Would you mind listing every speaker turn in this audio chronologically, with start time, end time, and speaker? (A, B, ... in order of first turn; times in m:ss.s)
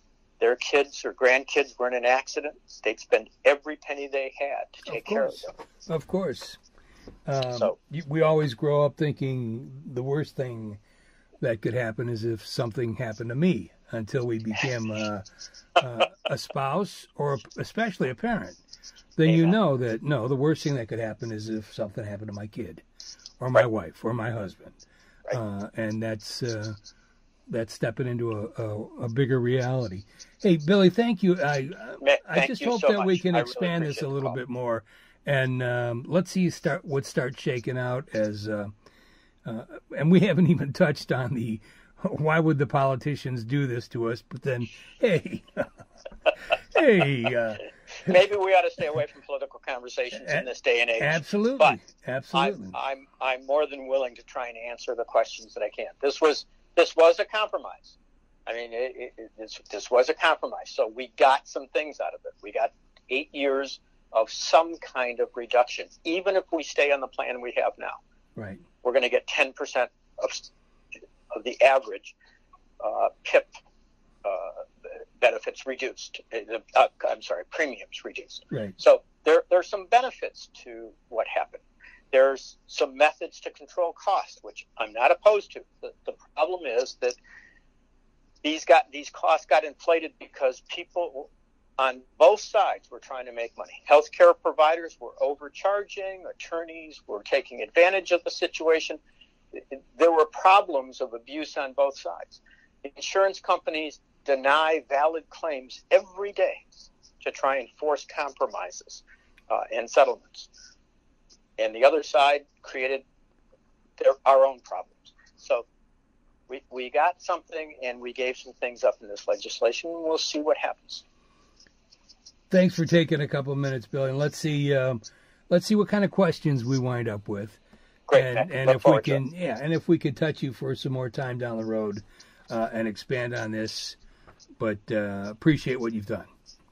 0:00.4-0:05.5 A
0:04.9-0:06.6 B
0:07.3-0:10.8 B
0:11.4-0:15.2 B
0:15.8-0:18.6 B
0:19.2-0:22.8 B
0:19.2-0:19.6 A
0:23.4-0:24.8 B
0:25.3-0:26.8 B
0:27.5-0:38.7 B
0:32.0-0:34.4 A
0:39.4-0:45.7 B
0:46.3-0:48.2 B
0:48.0-0:51.8 A
0:50.2-0:50.5 B
0:51.0-0:52.8 B
0:52.3-1:08.0 A
1:08.4-1:08.6 B
1:08.8-1:10.5 A
1:11.3-1:12.2 A
1:12.8-1:13.5 A
1:14.2-1:27.2 A
1:18.5-1:18.8 B
1:28.4-1:39.0 A
1:39.5-1:46.6 A
1:47.2-1:50.5 A
1:51.6-1:53.0 A
1:54.0-1:55.7 A
1:56.5-2:01.0 A
2:02.5-2:14.0 B
2:08.1-2:09.2 A
2:14.6-2:16.3 B